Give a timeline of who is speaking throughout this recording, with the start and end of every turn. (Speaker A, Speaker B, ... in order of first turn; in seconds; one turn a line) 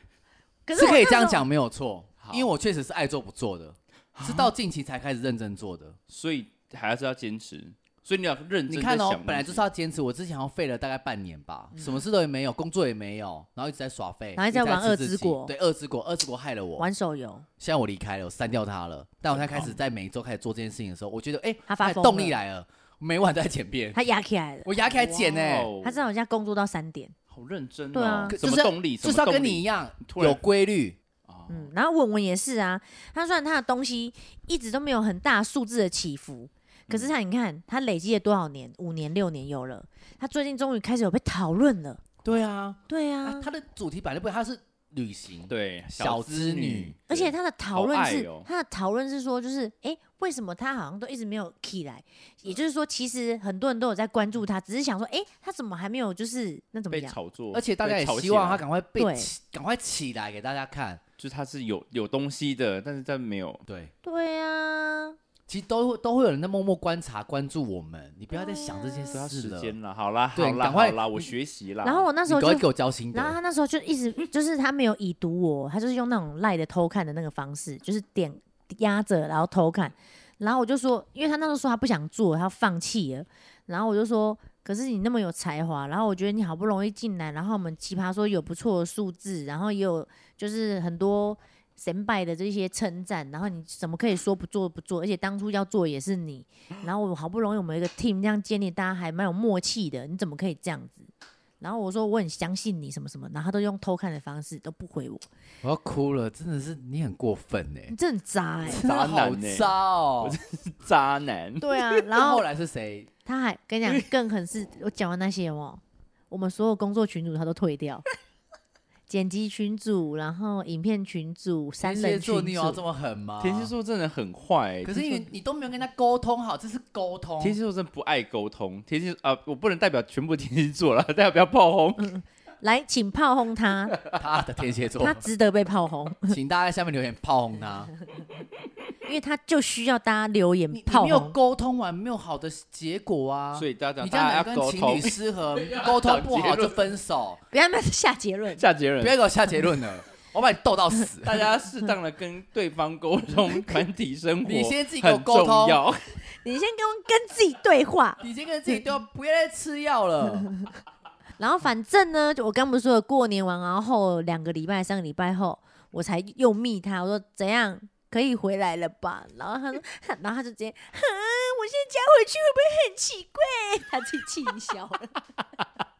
Speaker A: 0.7-1.4
Speaker B: 0.7-6.0
Speaker C: 2.2-2.5
Speaker C: 4.2-4.5
Speaker C: 6.1-9.7
Speaker B: 8.7-16.9
Speaker A: 14.4-15.5
Speaker A: 16.8-17.5
Speaker B: 17.6-24.0
Speaker C: 19.3-19.8
Speaker A: 21.7-22.4
Speaker A: 23.9-24.7
Speaker B: 24.6-25.7
Speaker C: 24.9-26.1
Speaker A: 25.8-27.1
Speaker C: 27.3-30.4
Speaker A: 27.9-28.4
Speaker B: 28.3-31.0
Speaker C: 31.3-31.7
Speaker A: 31.5-42.0
Speaker B: 42.2-47.0
Speaker A: 42.9-43.5
Speaker C: 45.5-48.5
Speaker A: 47.1-57.2
Speaker C: 56.9-58.6
Speaker B: 57.5-61.0
Speaker A: 59.0-59.3
Speaker C: 61.2-63.6
Speaker B: 63.7-63.9
Speaker A: 64.0-65.2
Speaker B: 65.5-69.8
Speaker A: 68.3-69.2
Speaker C: 69.1-72.1
Speaker B: 70.3-71.2
Speaker A: 71.8-105.3
Speaker B: 72.3-73.4
Speaker B: 105.6-107.9
Speaker A: 107.9-108.8
Speaker B: 108.7-110.4
Speaker C: 108.8-111.8
Speaker A: 111.6-112.5
Speaker B: 112.1-113.1
Speaker A: 113.2-118.0
Speaker A: 119.1-122.8
Speaker B: 121.8-123.7
Speaker C: 123.4-125.3
Speaker B: 124.8-127.6
Speaker C: 127.4-132.1
Speaker A: 132.0-134.0
Speaker B: 134.1-135.2
Speaker A: 135.0-136.4
Speaker B: 136.3-137.9
Speaker A: 139.0-141.4
Speaker B: 140.7-147.4
Speaker C: 143.6-146.8
Speaker A: 147.5-148.6
Speaker C: 148.6-149.2
Speaker B: 149.0-151.5
Speaker C: 151.2-156.2
Speaker B: 154.4-155.8
Speaker A: 156.3-158.8
Speaker B: 158.2-160.5
Speaker A: 161.4-175.2